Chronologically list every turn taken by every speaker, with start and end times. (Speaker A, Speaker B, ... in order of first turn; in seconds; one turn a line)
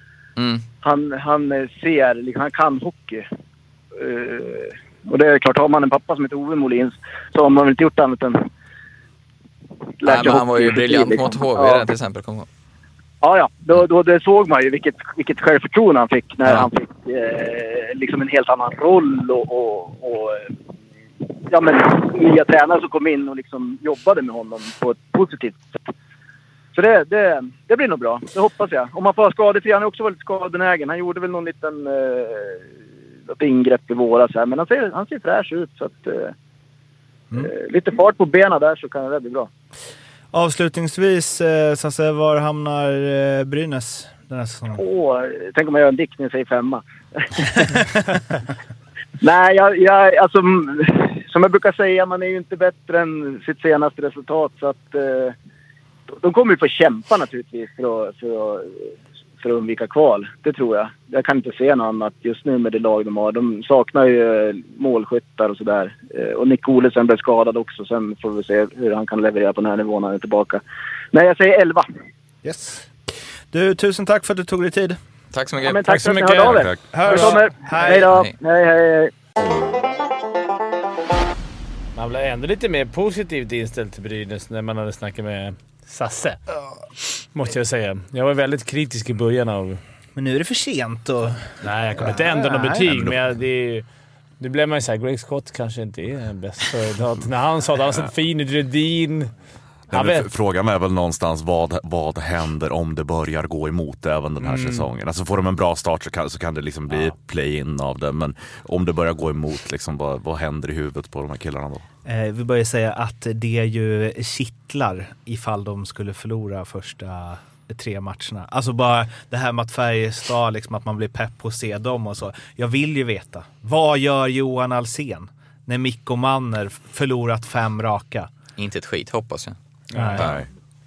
Speaker A: 0.4-0.7
Speaker B: 0.8-3.2
Speaker B: 3.9-8.4
Speaker B: 10.0-11.9
Speaker A: 10.0-12.5
Speaker B: 13.2-20.5
Speaker B: 21.5-25.9
Speaker B: 26.7-32.6
Speaker B: 33.3-36.3
Speaker B: 37.4-39.5
Speaker C: 40.3-44.8
Speaker B: 44.8-47.6
Speaker B: 49.2-55.3
Speaker B: 56.1-58.9
Speaker B: 59.4-70.6
Speaker B: 71.1-71.9
Speaker C: 72.4-72.9
Speaker C: 73.5-75.0
Speaker A: 75.3-75.9
Speaker B: 75.6-79.1
Speaker D: 75.8-77.3
Speaker C: 76.9-78.1
Speaker A: 77.8-78.3
Speaker D: 81.9-86.4
Speaker D: 87.3-89.8
Speaker C: 90.2-92.9
Speaker D: 91.6-93.8
Speaker D: 94.4-99.3
Speaker E: 99.9-111.8
Speaker D: 99.9-100.3
Speaker D: 104.4-104.8
Speaker C: 112.0-128.3
Speaker A: 128.6-129.6
Speaker C: 129.9-130.2
Speaker D: 129.9-130.3
Speaker E: 130.1-130.5